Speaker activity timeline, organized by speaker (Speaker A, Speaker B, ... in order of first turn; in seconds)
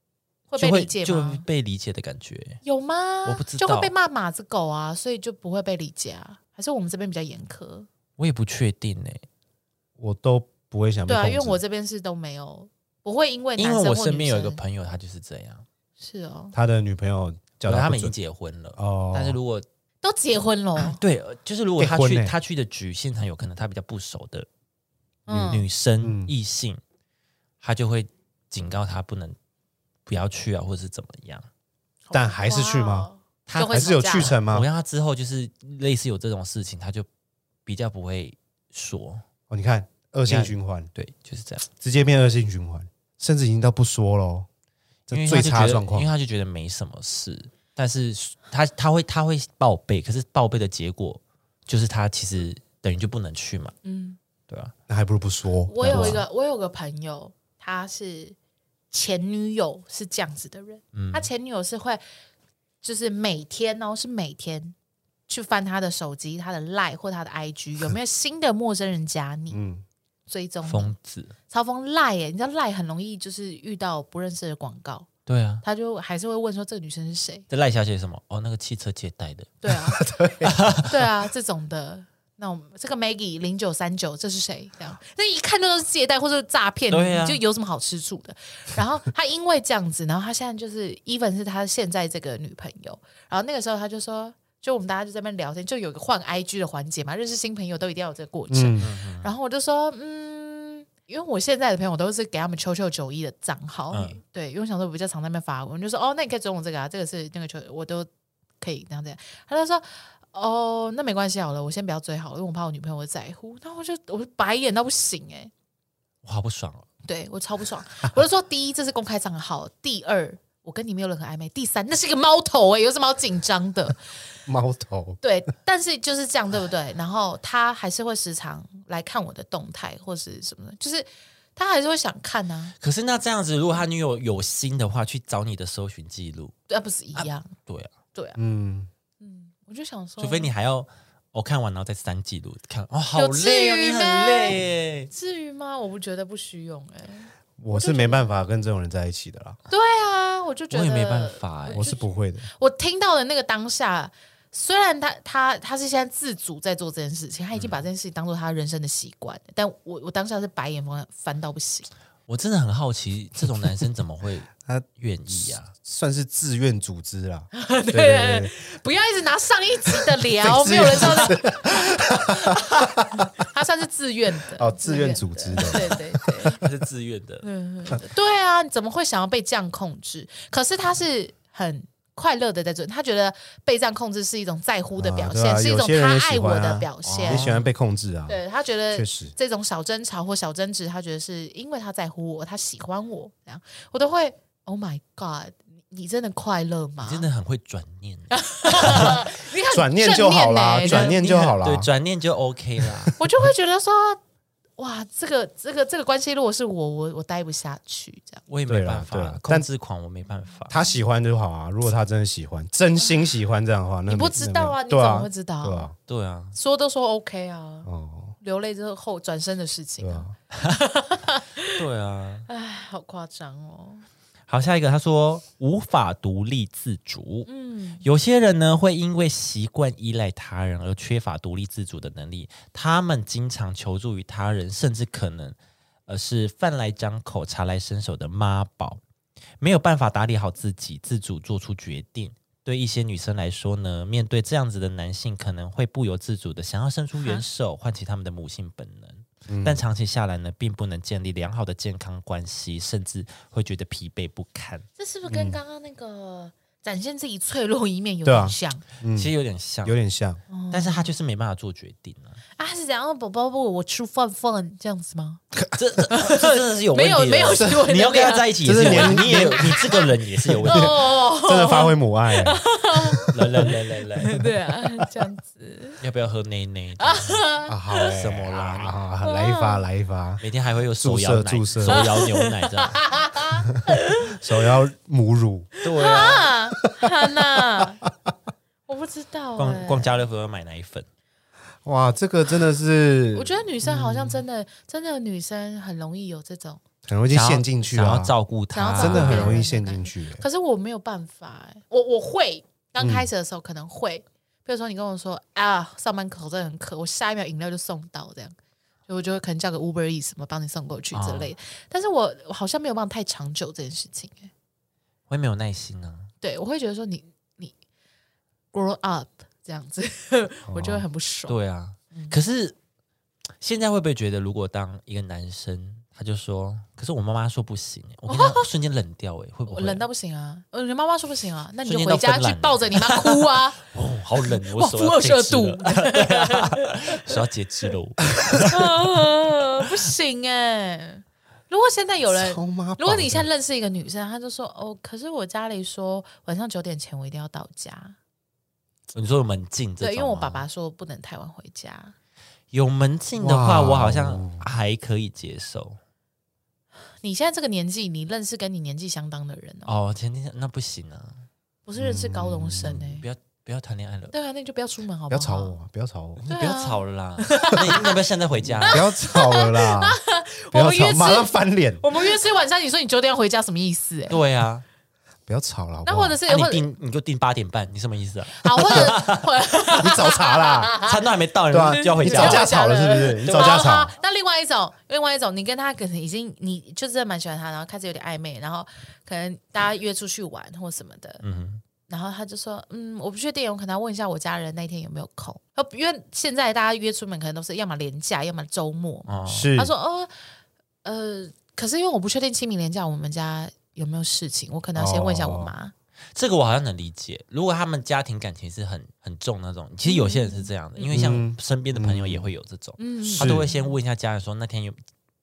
Speaker A: 0.5-1.4, 2.6-7.9, 11.1-14.6, 16.0-16.5, 20.0-21.0, 25.3-25.6, 32.0-34.3, 53.8-54.2, 55.7-58.4, 58.9-62.0, 62.8-64.7, 65.3-69.6, 70.3-70.9, 71.5-75.1, 75.6-77.5, 79.6-80.0, 80.9-108.1, 108.6-115.5, 117.0-124.0, 125.2-132.7, 136.7-137.5, 139.2-140.5, 143.1-144.6, 145.1-148.2, 149.7-161.9, 167.5-172.6, 173.2-176.6, 177.4-187.5, 188.3-197.3, 198.3-201.6, 203.2-204.2, 204.8-208.4, 214.1-215.9, 216.5-217.9, 218.4-221.8, 222.5-224.0, 227.5-228.0, 247.2-247.4, 255.0-258.8, 260.5-261.1, 262.6-265.4, 266.1-269.9, 270.7-273.3, 274.2-276.0, 277.0-278.2, 279.2-279.8, 281.9-284.4, 285.9-288.0, 288.9-290.2, 293.3-296.8, 298.7-308.5, 309.1-314.5, 316.4-317.7, 318.7-321.6, 328.3-328.7, 329.7-333.8, 334.4-337.4, 338.6-348.1, 350.0-352.1, 357.2-359.9, 361.9-363.2, 364.3-365.8, 366.4-368.2, 368.8-374.4, 376.0-376.9, 378.6-381.2, 381.9-391.4, 392.1-400.3, 401.0-405.9, 410.0-411.1, 413.0-413.9
Speaker B: 0.6-2.6, 3.2-3.9, 8.2-9.2, 13.6-15.6, 17.6-19.6, 20.8-24.5, 25.4-26.8, 27.6-29.4, 30.1-31.5, 33.5-37.1, 37.6-39.2, 40.2-41.6, 45.1-53.8, 55.8-56.2, 60.9-61.3, 70.6-71.3, 75.2-75.6, 77.5-79.5, 80.4-80.9, 86.9-87.4, 98.8-99.3, 103.9-104.2, 116.2-116.8, 132.8-136.5, 137.2-137.9, 140.2-145.1, 150.7-151.9, 162.3-165.7, 170.9-171.2, 176.6-177.4, 187.0-187.7, 197.0-199.2, 200.8-203.1, 208.5-210.7, 216.1-216.6, 221.7-222.5, 224.5-227.5, 228.0-235.6, 236.1-239.0, 239.6-254.8, 259.1-260.0, 260.7-262.4, 265.8-270.9, 273.3-274.4, 276.0-277.4, 278.1-278.9, 280.4-283.0, 285.8-286.5, 289.6-291.1, 297.3-299.6, 311.1-311.5, 315.3-316.3, 321.5-322.8, 323.6-330.0, 331.8-339.1, 349.1-350.6, 352.7-356.0, 359.8-361.4, 363.2-364.3, 366.5-369.0, 374.3-374.8, 376.4-379.5, 381.0-382.7, 383.4-384.0, 391.4-391.8, 399.3-399.7, 406.3-415.0
Speaker C: 10.0-11.6, 16.5-18.1, 18.8-19.4, 21.8-22.3, 25.3-26.3, 32.1-33.1, 33.7-34.7, 39.5-40.9, 41.8-44.5, 45.1-46.1, 54.9-56.2, 69.5-69.8, 79.7-80.8, 98.5-98.9, 124.5-125.2, 138.4-138.9, 147.6-149.6, 151.7-152.5, 164.7-168.5, 170.4-173.2, 174.5-176.7, 185.0-189.3, 198.9-199.2, 199.7-201.9, 202.8-203.1, 208.7-209.7, 210.7-215.9, 217.8-218.3, 220.0-220.3, 249.5-249.8, 255.3-255.6, 258.2-259.3, 259.8-260.4, 267.6-267.8, 268.6-273.2, 277.7-280.4, 281.0-282.1, 284.3-285.7, 291.8-294.4, 297.0-298.3, 299.0-300.4, 303.0-303.3, 320.7-321.0, 342.3-343.5, 353.4-354.6, 362.0-363.2, 365.3-366.4, 368.9-370.2, 370.7-372.0, 375.5-376.4, 380.0-380.9, 381.7-384.1, 399.5-399.9, 404.9-405.7, 411.1-412.5, 413.4-413.7